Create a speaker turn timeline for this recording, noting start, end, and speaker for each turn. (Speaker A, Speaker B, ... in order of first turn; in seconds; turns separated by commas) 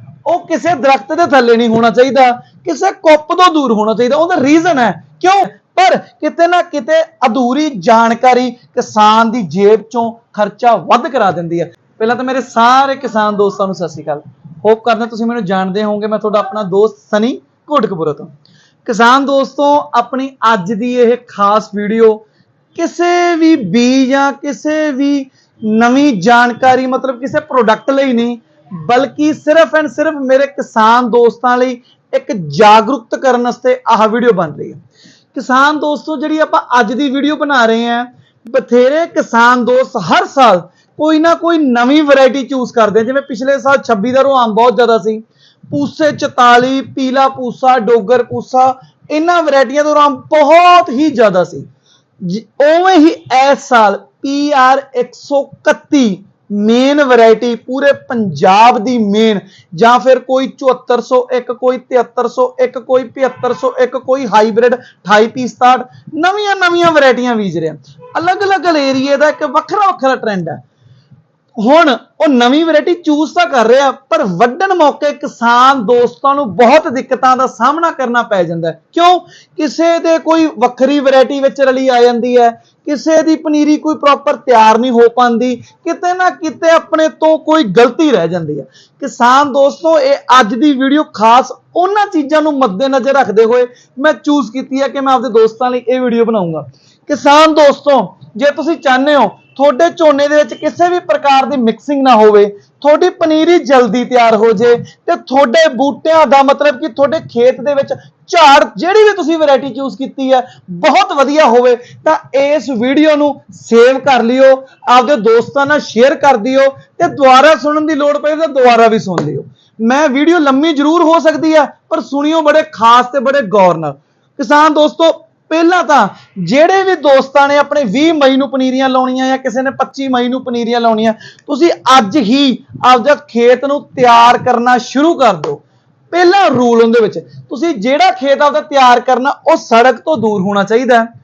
Speaker A: 0.2-18.3, Speaker A: 18.8-22.2, Speaker A: 22.7-34.8, Speaker A: 35.3-51.7, Speaker A: 52.2-70.6, Speaker A: 71.6-141.1